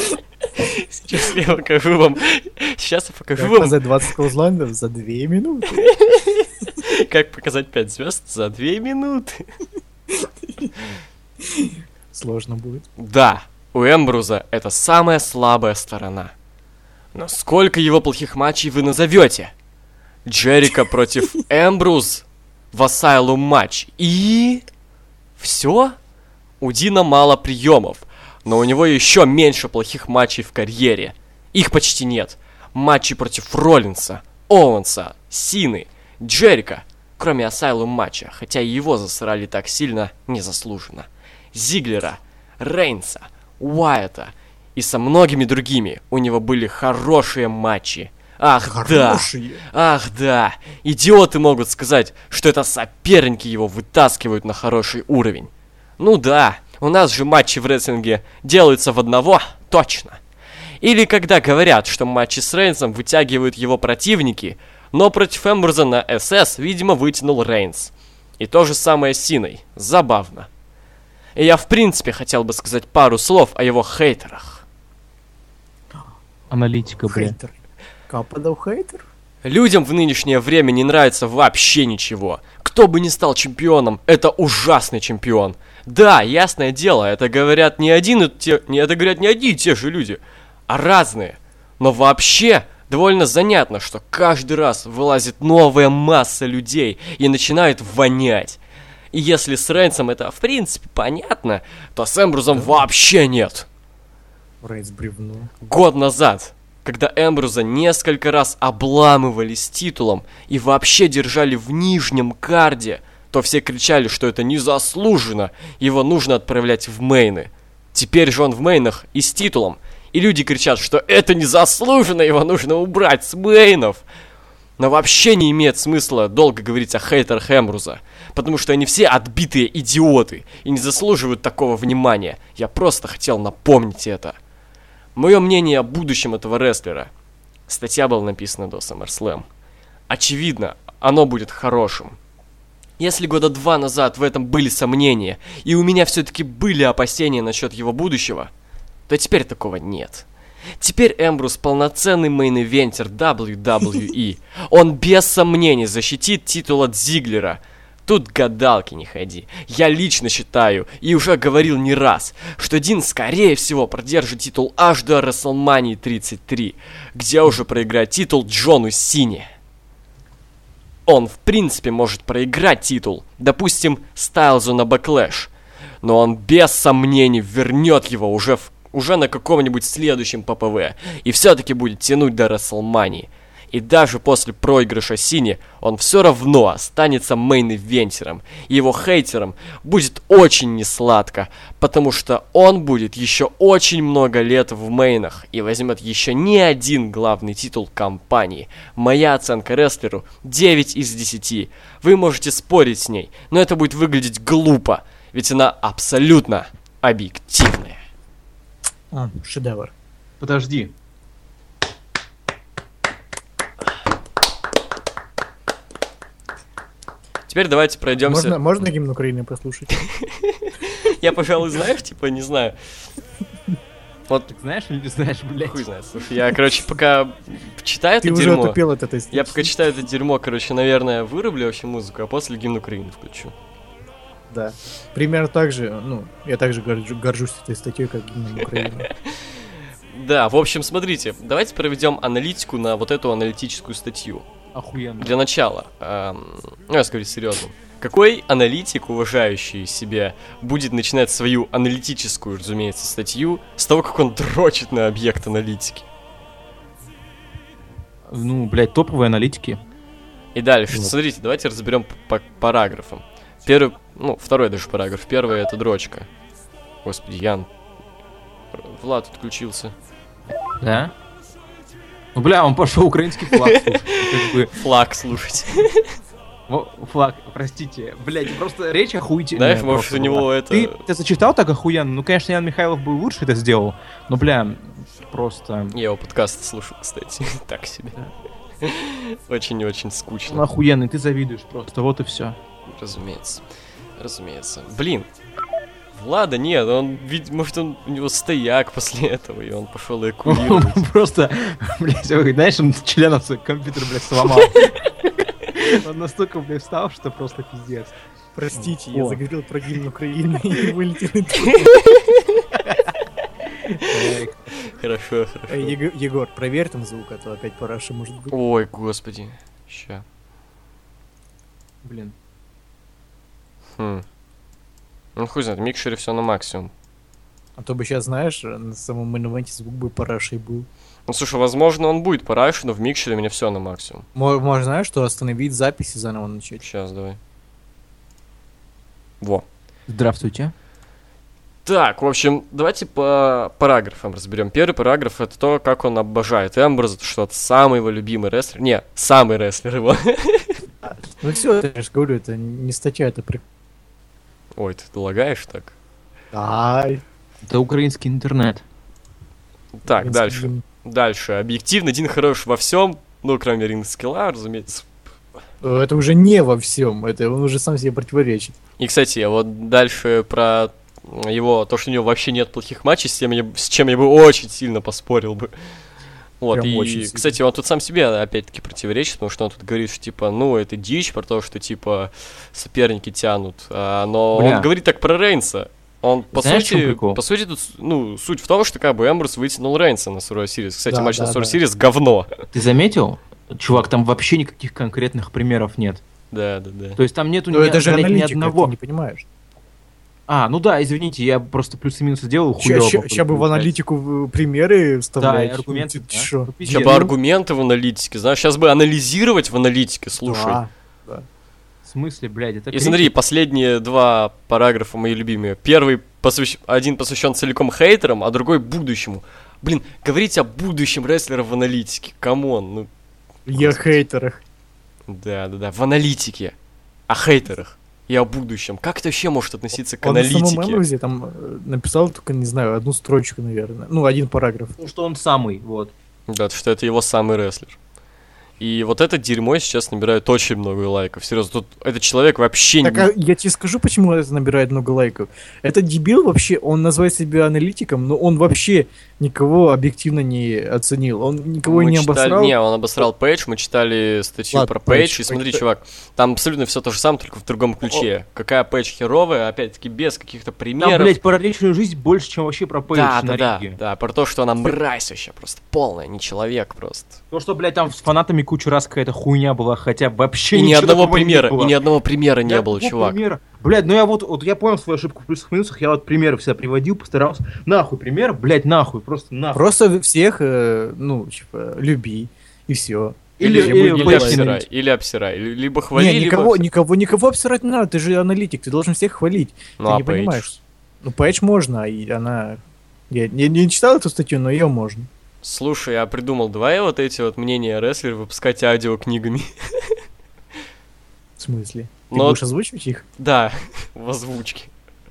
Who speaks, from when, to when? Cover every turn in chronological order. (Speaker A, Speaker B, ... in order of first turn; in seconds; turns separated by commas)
Speaker A: 1.0-3.8, Speaker B: 3.4-5.9, Speaker A: 5.8-9.4, Speaker B: 10.1-10.7, Speaker B: 11.4-12.8, Speaker A: 13.0-16.3, Speaker A: 17.1-19.5, Speaker A: 20.2-24.6, Speaker A: 25.4-25.9, Speaker A: 26.6-60.2, Speaker B: 48.6-49.6, Speaker A: 60.8-70.5, Speaker A: 71.3-74.6, Speaker C: 76.5-77.3, Speaker B: 77.1-77.5, Speaker B: 78.1-79.0, Speaker A: 79.4-98.6, Speaker A: 99.1-103.7, Speaker B: 104.6-105.5, Speaker A: 105.6-124.0, Speaker A: 124.8-134.3, Speaker A: 135.2-137.1, Speaker A: 137.7-139.4, Speaker A: 140.1-142.2, Speaker A: 143.0-148.5, Speaker A: 149.1-150.2, Speaker A: 150.8-169.5, Speaker A: 171.1-175.5, Speaker A: 176.0-208.0, Speaker B: 209.1-209.9, Speaker C: 210.4-210.9, Speaker A: 217.5-218.6, Speaker B: 218.2-220.0, Speaker A: 220.0-222.8, Speaker C: 224.5-225.8, Speaker A: 225.6-228.8, Speaker B: 228.2-229.7, Speaker A: 229.3-233.5, Speaker B: 234.5-239.1, Speaker A: 238.7-239.3, Speaker A: 240.1-244.4, Speaker C: 244.7-245.4, Speaker A: 245.2-256.1, Speaker C: 258.3-259.8, Speaker A: 260.5-266.3, Speaker A: 267.0-267.7, Speaker A: 268.7-269.9, Speaker C: 270.8-271.1, Speaker C: 272.3-274.8, Speaker A: 273.6-276.0, Speaker C: 276.7-285.9, Speaker A: 279.5-281.0, Speaker A: 285.9-288.2, Speaker A: 288.8-290.6, Speaker C: 290.5-292.6, Speaker A: 292.9-293.6, Speaker A: 294.2-295.3, Speaker A: 296.1-301.0, Speaker C: 300.4-308.2, Speaker B: 308.5-311.9, Speaker C: 308.7-309.4, Speaker A: 311.7-312.6, Speaker C: 313.9-314.7, Speaker A: 314.8-315.9, Speaker B: 315.7-318.5, Speaker A: 318.5-320.2, Speaker C: 322.0-322.3, Speaker A: 324.0-324.2, Speaker A: 325.4-326.9, Speaker B: 327.8-330.9, Speaker A: 331.3-334.2, Speaker B: 334.3-336.8, Speaker A: 336.8-337.4, Speaker C: 340.1-340.7, Speaker A: 341.8-350.8, Speaker B: 351.1-353.6, Speaker A: 354.8-355.9, Speaker B: 356.5-357.2, Speaker C: 357.6-358.8, Speaker A: 360.0-365.1, Speaker B: 360.1-360.8, Speaker B: 365.8-368.8, Speaker A: 369.0-375.7, Speaker A: 376.6-392.5, Speaker B: 376.7-377.6, Speaker C: 384.5-384.9, Speaker C: 386.5-387.4, Speaker B: 391.1-391.8, Speaker C: 392.7-396.2, Speaker A: 396.5-397.2, Speaker C: 397.2-398.9, Speaker B: 397.7-399.4, Speaker C: 400.5-403.9, Speaker B: 402.8-407.3, Speaker C: 405.4-407.3, Speaker A: 406.9-410.8, Speaker B: 410.4-411.4, Speaker C: 412.0-413.3, Speaker A: 412.9-423.1, Speaker B: 423.7-424.6, Speaker A: 423.7-424.1, Speaker A: 425.3-426.7, Speaker A: 427.3-431.0, Speaker B: 430.2-434.9, Speaker C: 435.0-436.1, Speaker A: 436.5-438.0, Speaker A: 438.8-443.3, Speaker B: 443.0-452.7, Speaker A: 451.8-461.4, Speaker B: 454.7-455.8, Speaker C: 461.0-464.0, Speaker A: 463.1-467.4, Speaker C: 467.5-472.0, Speaker A: 470.7-473.4, Speaker C: 472.6-479.9, Speaker B: 479.7-484.8, Speaker C: 483.6-484.7, Speaker A: 483.6-486.8, Speaker B: 486.1-495.3, Speaker A: 490.0-490.7, Speaker A: 495.6-500.1, Speaker B: 501.6-503.2, Speaker A: 502.3-502.6, Speaker A: 503.4-504.9